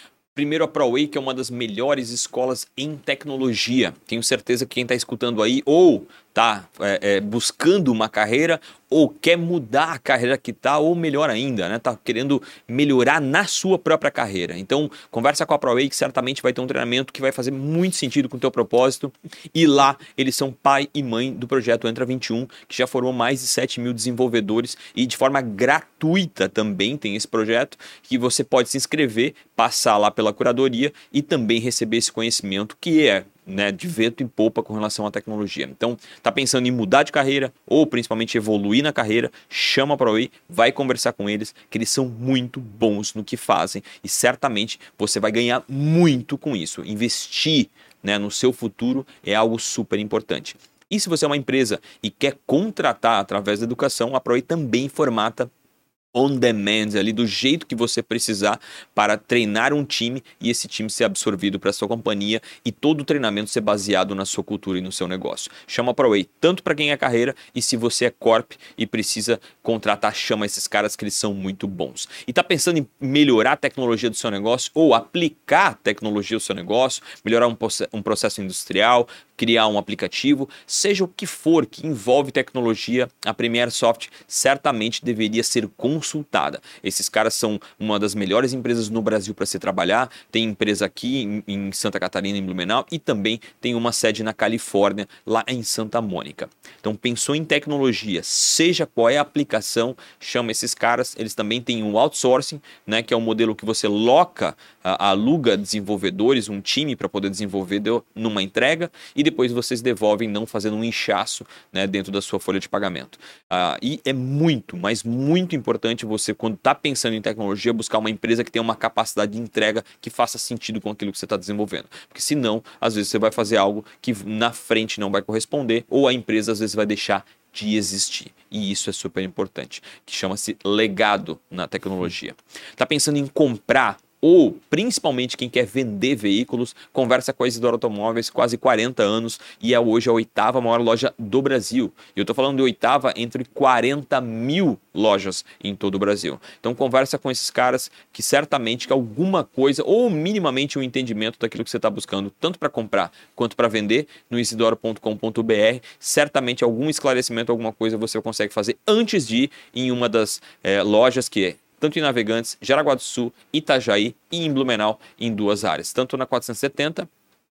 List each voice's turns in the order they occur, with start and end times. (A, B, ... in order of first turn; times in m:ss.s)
0:00.4-0:55.5 A
0:56.1-2:47.1 A